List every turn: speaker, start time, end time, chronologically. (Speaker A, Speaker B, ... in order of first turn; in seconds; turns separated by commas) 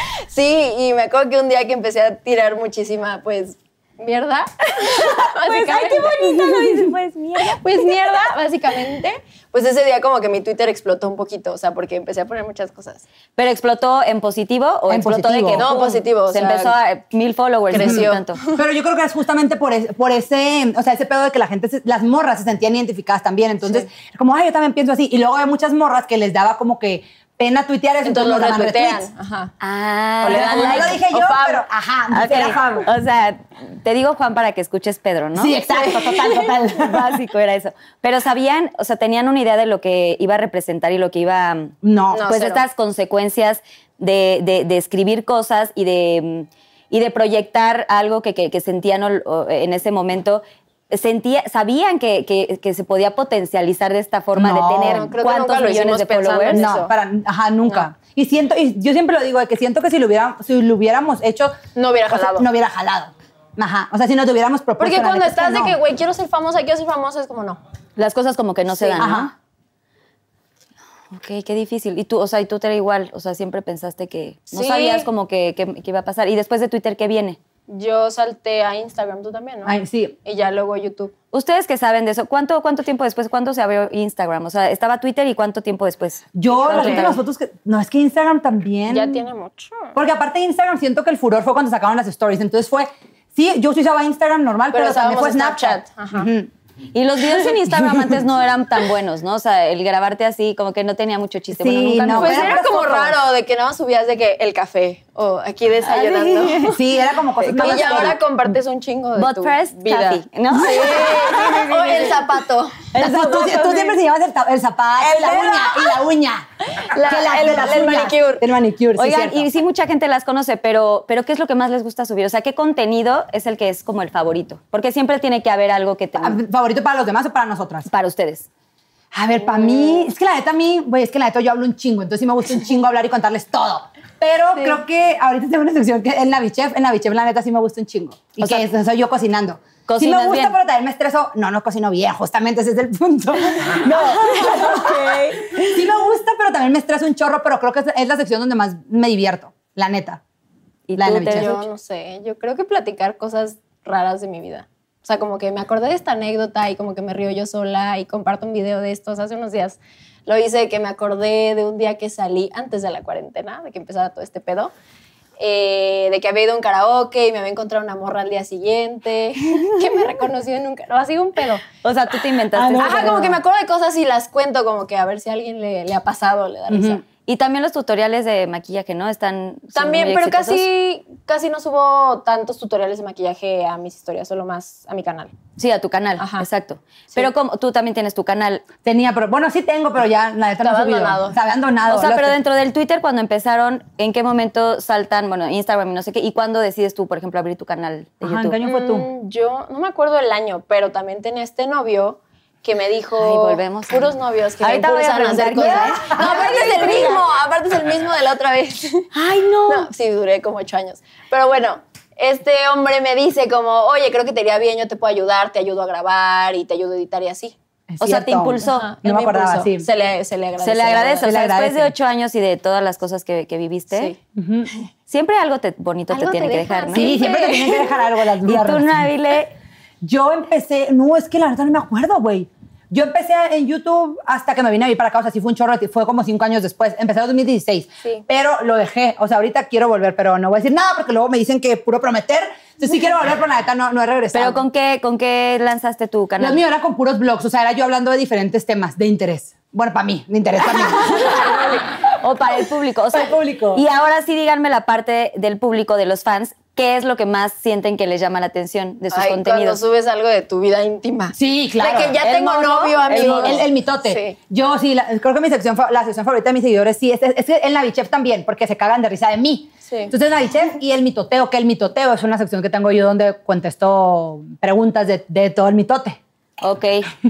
Speaker A: 0.3-6.9, Speaker B: 4.9-8.1, Speaker A: 7.5-13.0, Speaker B: 13.3-18.4, Speaker C: 14.9-15.7, Speaker A: 15.5-16.7, Speaker A: 17.7-18.6, Speaker C: 17.8-29.1, Speaker A: 28.0-29.5, Speaker B: 29.6-31.0, Speaker A: 30.2-31.6, Speaker C: 30.2-32.9, Speaker B: 32.1-35.6, Speaker C: 35.4-37.0, Speaker A: 35.7-36.5, Speaker B: 36.7-56.7, Speaker C: 41.8-42.2, Speaker A: 42.1-42.6, Speaker C: 54.3-55.1, Speaker A: 54.8-56.9, Speaker C: 56.5-65.8, Speaker A: 61.7-62.5, Speaker A: 64.8-67.6, Speaker B: 68.0-69.3, Speaker A: 68.7-69.1, Speaker C: 69.0-69.3, Speaker B: 71.1-77.4, Speaker A: 74.5-75.1, Speaker A: 77.7-81.1, Speaker C: 79.6-80.1, Speaker B: 81.3-87.2, Speaker C: 86.3-89.3, Speaker A: 86.6-87.2, Speaker A: 88.9-89.9, Speaker C: 89.9-96.5, Speaker A: 94.7-96.3, Speaker B: 96.9-103.1, Speaker C: 101.5-103.1, Speaker A: 102.1-106.8, Speaker B: 105.8-106.8, Speaker C: 106.7-108.2, Speaker B: 107.4-108.2, Speaker A: 107.5-112.9, Speaker B: 109.2-112.2, Speaker C: 110.5-111.5, Speaker B: 112.9-114.0, Speaker C: 112.9-119.5, Speaker A: 115.0-116.0, Speaker A: 116.8-118.5, Speaker B: 119.0-126.4, Speaker C: 126.2-127.9, Speaker B: 127.9-128.5, Speaker C: 129.1-150.2, Speaker A: 129.4-130.1, Speaker B: 138.4-138.7, Speaker B: 139.9-140.5, Speaker B: 143.8-145.7, Speaker B: 150.9-151.6, Speaker C: 151.0-151.6, Speaker A: 151.2-164.7, Speaker A: 165.4-171.6, Speaker B: 169.6-169.9, Speaker B: 171.8-173.4, Speaker C: 172.5-173.4, Speaker A: 172.8-177.0, Speaker C: 176.7-177.0, Speaker B: 177.2-180.7, Speaker A: 179.7-185.3, Speaker B: 185.6-188.6, Speaker A: 186.2-186.5, Speaker C: 188.8-192.4, Speaker A: 190.6-191.4, Speaker B: 191.8-198.6, Speaker C: 198.2-199.1, Speaker A: 198.6-209.1, Speaker B: 203.2-207.2, Speaker C: 205.6-207.0, Speaker C: 209.2-209.8, Speaker B: 209.2-209.7, Speaker A: 209.7-217.5, Speaker C: 217.9-219.9, Speaker B: 218.0-218.9, Speaker A: 218.6-221.3, Speaker B: 220.6-224.1, Speaker C: 221.2-221.9, Speaker C: 224.3-224.7, Speaker B: 225.1-227.5, Speaker A: 226.1-227.9, Speaker C: 226.9-229.1, Speaker B: 228.4-229.5, Speaker C: 230.0-244.6, Speaker B: 244.3-246.6, Speaker C: 246.4-251.8, Speaker B: 251.0-251.5, Speaker B: 252.2-259.8, Speaker C: 253.1-253.8, Speaker A: 259.1-264.4, Speaker C: 261.3-262.2, Speaker B: 262.2-263.6, Speaker C: 263.1-276.2, Speaker B: 276.6-277.1